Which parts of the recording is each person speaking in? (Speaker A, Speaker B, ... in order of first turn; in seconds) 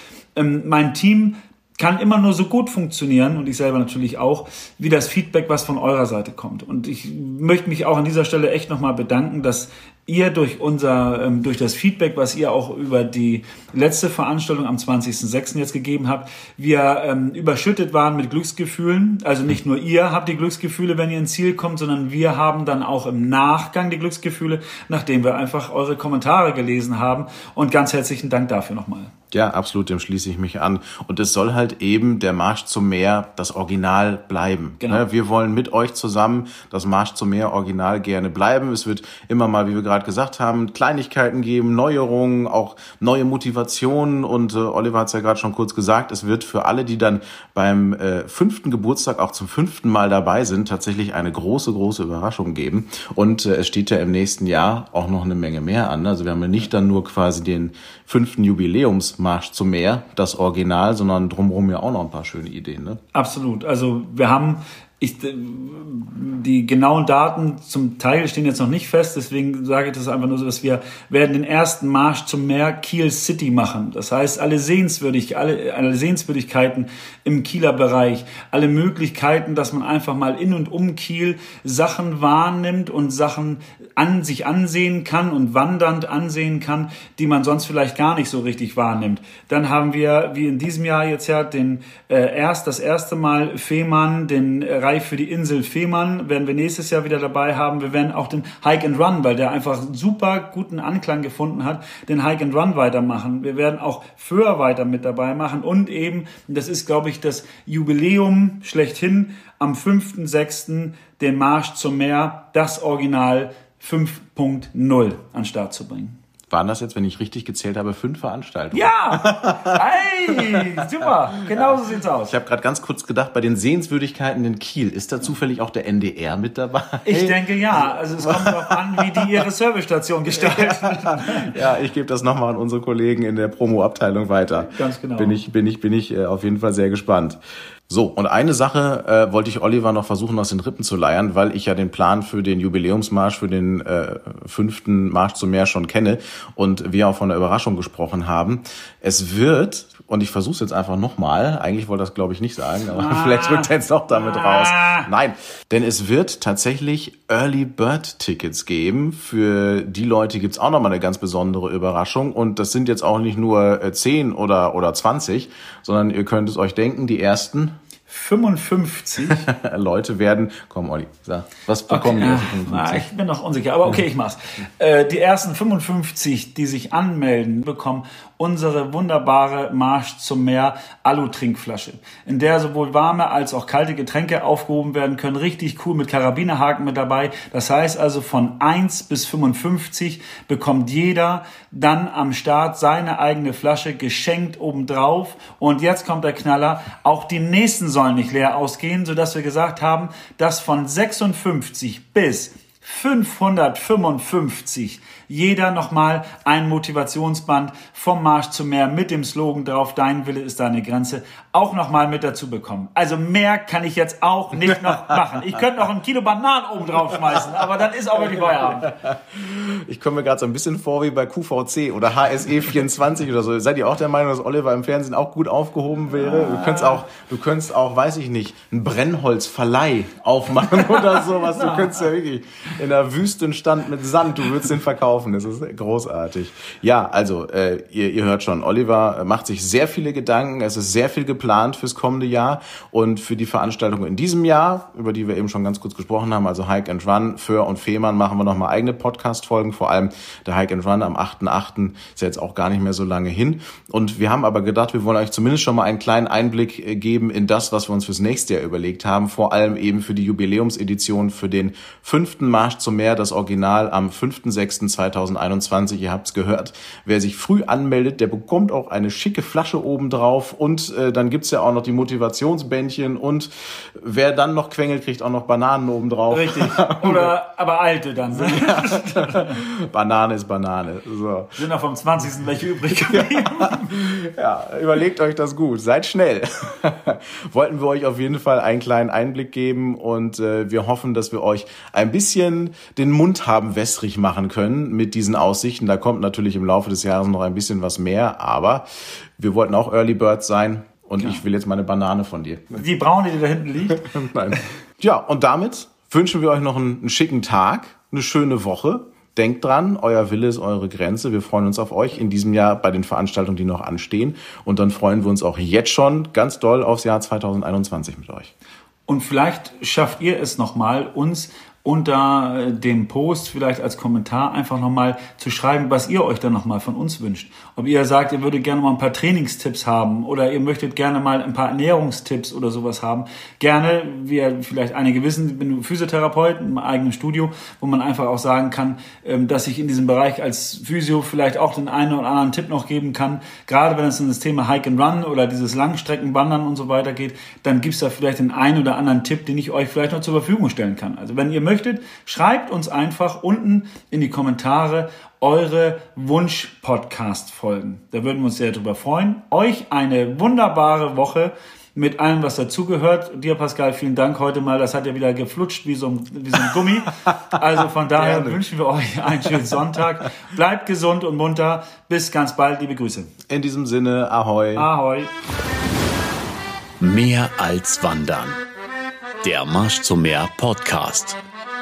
Speaker A: 0.3-29.1, 63.1-116.2, 118.7-122.3, 127.0-131.5, 134.7-135.4, 152.9-155.1, 168.1-169.4, 171.9-218.9, 226.4-226.9, 276.3-279.6, 281.6-283.9, 302.8-304.0, 319.1-373.3, 374.7-375.3
Speaker B: 29.3-63.0, 116.5-119.8, 121.5-129.4, 130.4-167.7, 169.3-173.1, 218.8-277.4, 278.3-281.5, 283.0-298.8, 299.4-302.8, 303.9-318.5, 368.1-368.6, 373.5-374.9
Speaker C: 377.0-378.6, 379.4-381.4